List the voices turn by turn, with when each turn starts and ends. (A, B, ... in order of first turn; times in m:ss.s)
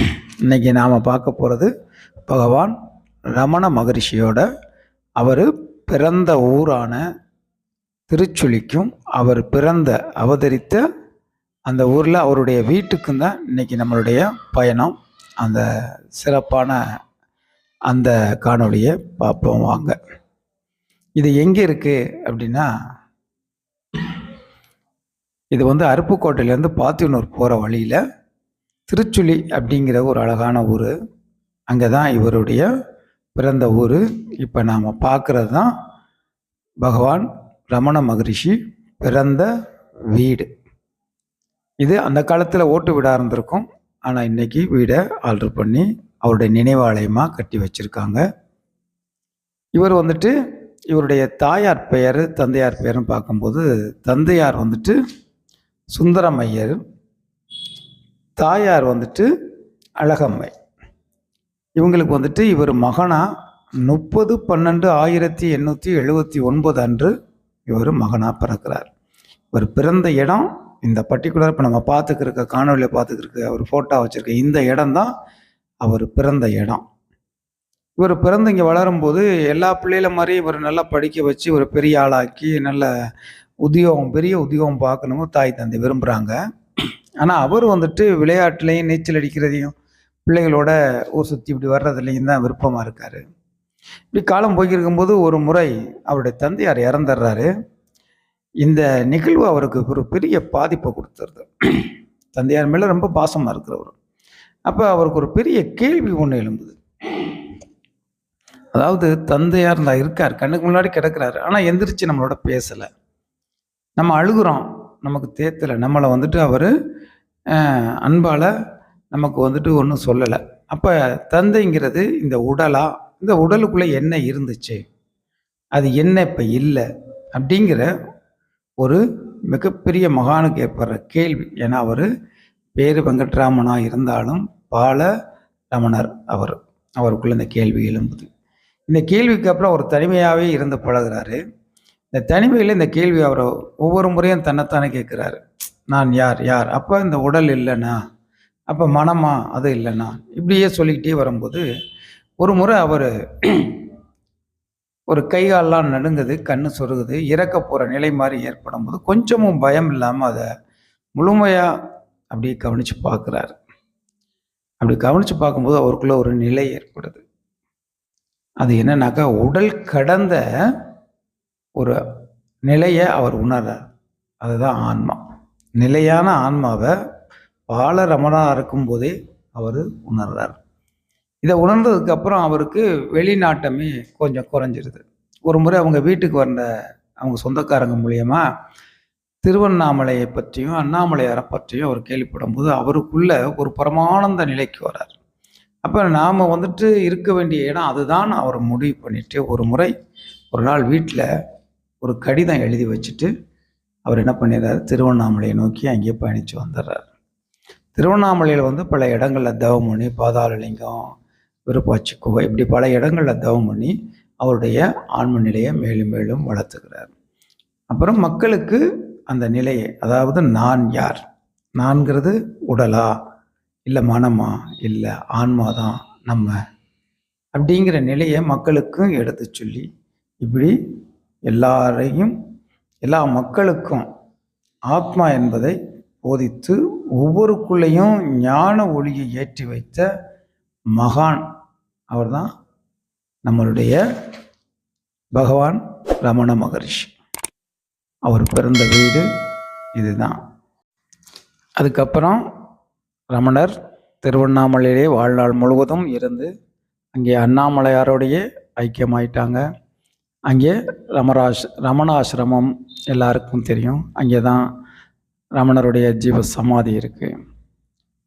0:00.4-0:01.7 A
0:02.3-0:02.7 A
0:03.4-0:04.4 A
0:05.2-0:07.0 A
0:08.1-0:10.8 A
0:11.7-0:15.6 A
0:16.2-0:16.8 A
0:17.9-0:20.0 A
0:21.2-0:22.7 A
0:25.5-0:28.0 A
0:28.9-0:30.9 A
0:31.7-0:32.7 A
0:33.4-0:35.7 A
0:36.8-0:39.5 A
0:40.1-0:40.5 A
0:41.8-0:48.2 A
0:49.8-0:50.3 A
0:50.9-0:54.9 A
0:55.9-0:56.8 A
0:58.4-0:59.3 A
1:00.0-1:00.5 A
1:01.8-1:03.2 A
1:03.8-1:07.1 A
1:07.7-1:08.9 A
1:09.5-1:15.1 A
1:15.8-1:16.8 A
1:18.0-1:22.9 A
1:23.6-1:26.4 A
1:27.2-1:29.7 A
1:30.3-1:33.2 A
1:34.1-1:37.5 A
1:38.6-1:43.9 A
1:44.7-1:47.5 A
1:48.7-1:52.9 A
1:54.0-1:56.7 A
1:57.5-1:58.5 A
1:59.1-2:04.8 A
2:05.8-2:06.8 A
2:07.4-2:07.9 A
2:08.8-2:12.1 A
2:12.8-2:15.1 A
2:15.7-2:18.3 A
2:18.9-2:21.4 A
2:22.1-2:28.0 A
2:28.7-2:31.6 A
2:32.4-2:33.8 A
2:35.1-2:40.4 A
2:41.2-2:41.7 A
2:42.3-2:43.5 A
2:44.8-2:47.2 A
2:48.6-2:50.4 A
2:52.7-2:53.8 A
2:54.4-2:55.2 A
2:55.8-2:56.9 A
2:57.7-3:00.6 A
3:01.4-3:06.7 A
3:07.2-3:08.4 A
3:09.4-3:15.1 A
3:15.8-3:19.9 A
3:20.5-3:21.2 A
3:22.0-3:23.3 A
3:24.1-3:27.0 A
3:28.0-3:31.0 A
3:31.7-3:37.1 A
3:37.9-3:41.2 A
3:41.8-3:43.1 A
3:43.9-3:46.5 A
3:47.6-3:49.8 A
3:50.4-3:50.7 A
3:51.5-3:52.3 A
3:53.0-3:54.1 A
3:54.9-4:00.0 A
4:01.0-4:01.4 A
4:02.1-4:02.5 A
4:03.4-4:04.0 A
4:05.4-4:07.1 A
4:08.3-4:09.2 A
4:10.0-4:10.4 A
4:11.8-4:12.4 A
4:13.3-4:16.5 A
4:17.2-4:19.6 A
4:20.5-4:24.6 A
4:25.6-4:27.3 A